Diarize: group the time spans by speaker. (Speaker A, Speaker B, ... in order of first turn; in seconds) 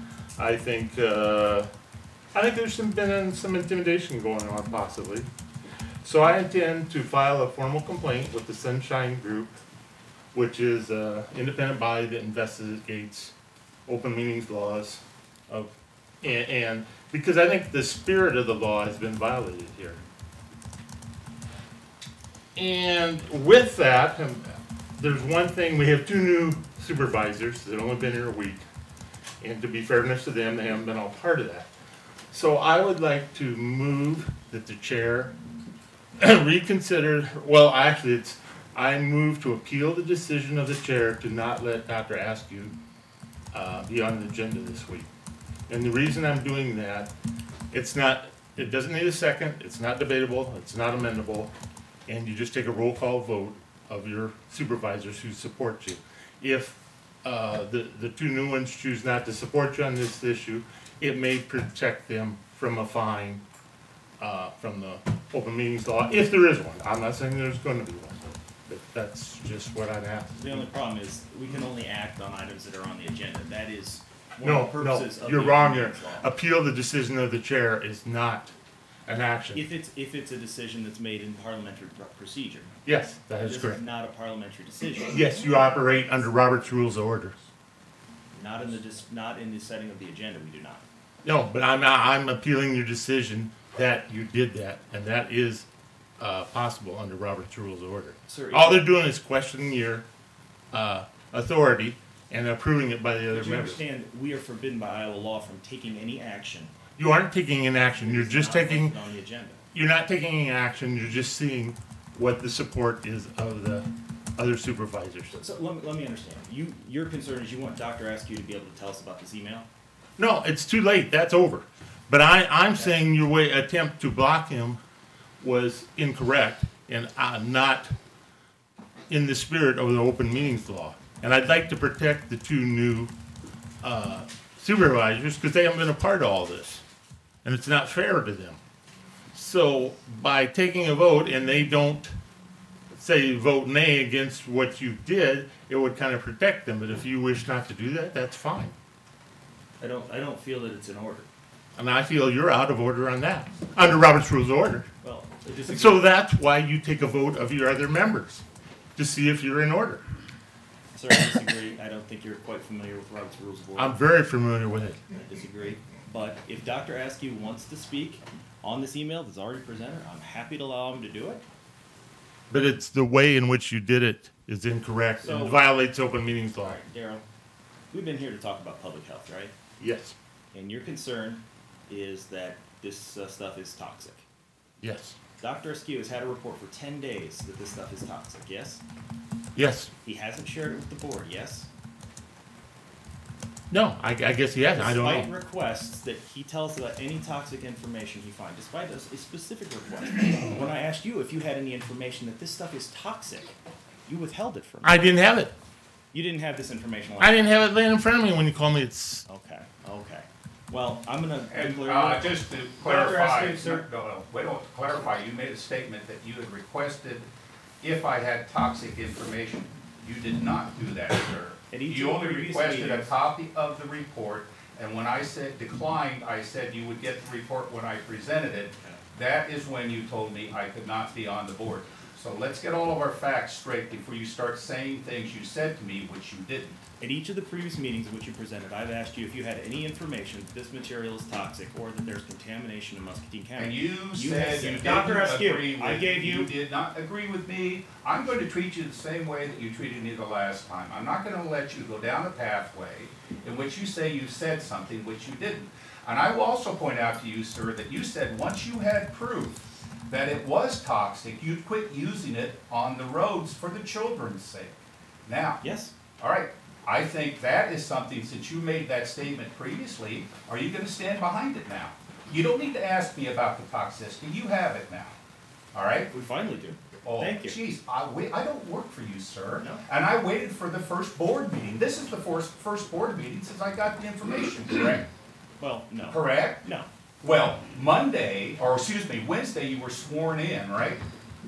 Speaker A: 0.4-1.7, 2.3-5.3, 6.0-9.6, 10.3-13.3, 13.9-20.0, 22.6-28.6, 29.4-31.7, 32.3-35.3, 36.2-42.7, 43.5-45.1, 45.7-47.1, 47.7-51.5, 52.1-63.4, 64.2-70.7, 74.4-78.5, 79.1-79.7, 82.8-83.8, 85.1-87.4, 91.2-95.7, 96.2-100.0, 100.7-103.8, 107.0-109.0, 109.7-113.9, 114.4-115.4, 120.2-124.8, 125.4-127.9, 129.1-133.1, 133.8-136.8, 137.4-138.6, 139.3-142.1, 142.9-148.8, 151.8-154.9, 155.7-158.4, 159.0-160.0, 163.8-165.0, 172.5-176.8, 179.8-180.2, 184.8-185.2, 189.6-189.9, 193.7-195.3, 204.8-205.5, 207.2-209.2
Speaker B: 70.4-76.3, 79.5-82.7, 83.4-85.3, 88.3-90.8, 98.3-98.9, 103.3-106.7, 108.0-109.6, 115.3-119.7, 149.8-151.3, 155.0-156.1, 160.9-164.0, 165.1-171.4, 175.2-175.6, 176.6-177.2, 177.9-179.5, 180.5-184.3, 185.4-188.8, 190.0-191.7, 194.7-203.6, 204.1-205.2, 206.1-207.6, 209.3-213.8, 221.7-223.1, 237.0-246.5, 265.6-265.9, 276.1-277.6, 279.6-279.9, 285.6-286.9
Speaker C: 211.5-217.3, 217.8-236.8, 243.6-265.6, 266.2-275.2, 275.7-276.1, 277.0-285.1, 286.1-286.7, 287.2-291.0